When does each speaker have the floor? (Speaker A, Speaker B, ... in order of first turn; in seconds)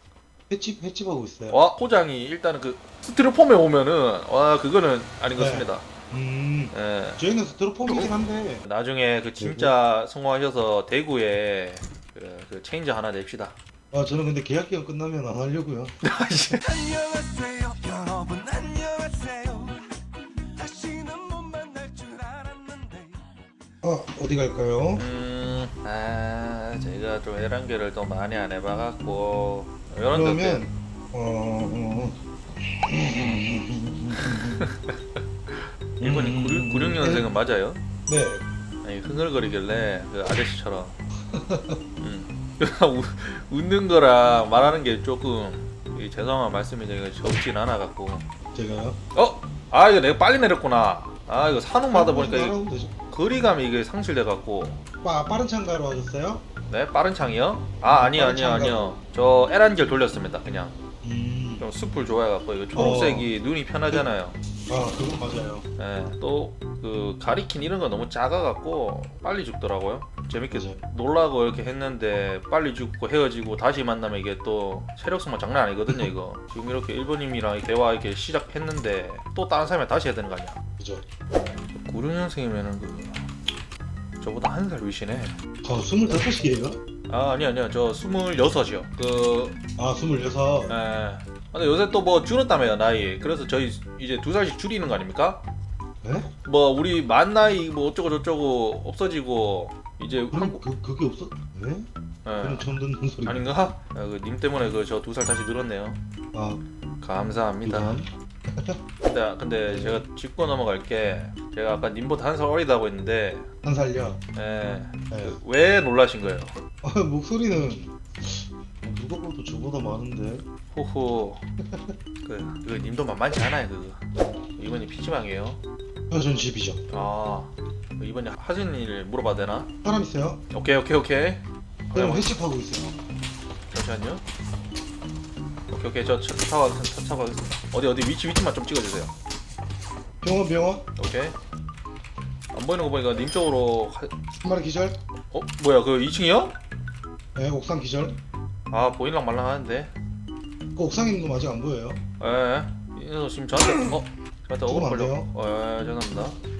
Speaker A: 0.5-1.6, 5.3-8.6, 9.4-9.8, 13.9-16.0, 23.8-25.1, 30.1-34.7, 36.0-37.3, 38.1-38.4, 41.3-41.8, 48.5-49.0, 51.9-52.9, 55.0-56.5, 57.9-59.0, 61.0-61.7, 62.7-63.3, 64.7-65.7, 70.5-70.8, 80.8-81.0, 85.6-86.8, 89.8-90.7, 96.0-96.3, 100.3-101.9, 102.4-103.5, 106.3-106.6, 107.7-108.8, 109.7-110.0, 113.6-114.2, 115.1-115.4, 116.8-120.5, 121.6-122.0, 126.1-126.8, 129.8-130.4, 131.9-133.0, 140.2-140.8, 144.4-145.0, 147.3-148.2, 150.8-152.0, 154.7-155.3
Speaker B: 1.5-5.8, 6.7-7.2, 7.9-8.1, 8.6-13.6, 16.0-16.7, 25.0-30.6, 34.2-37.8, 38.8-41.0, 42.0-48.2, 49.1-52.5, 53.1-54.8, 56.7-60.7, 61.6-64.4, 65.8-80.6, 81.7-83.2, 84.2-85.3, 87.1-89.6, 90.7-95.4, 96.5-100.6, 102.2-102.7, 103.2-106.0, 107.0-108.0, 109.0-113.5, 114.3-116.6, 120.7-121.4, 122.2-124.0, 124.6-125.6, 126.9-129.7, 130.5-132.3, 133.7-134.2, 135.7-139.1, 141.0-141.3, 142.5-144.1, 145.3-146.6, 148.7-149.9, 152.2-156.4
Speaker C: 16.7-19.9, 20.5-23.4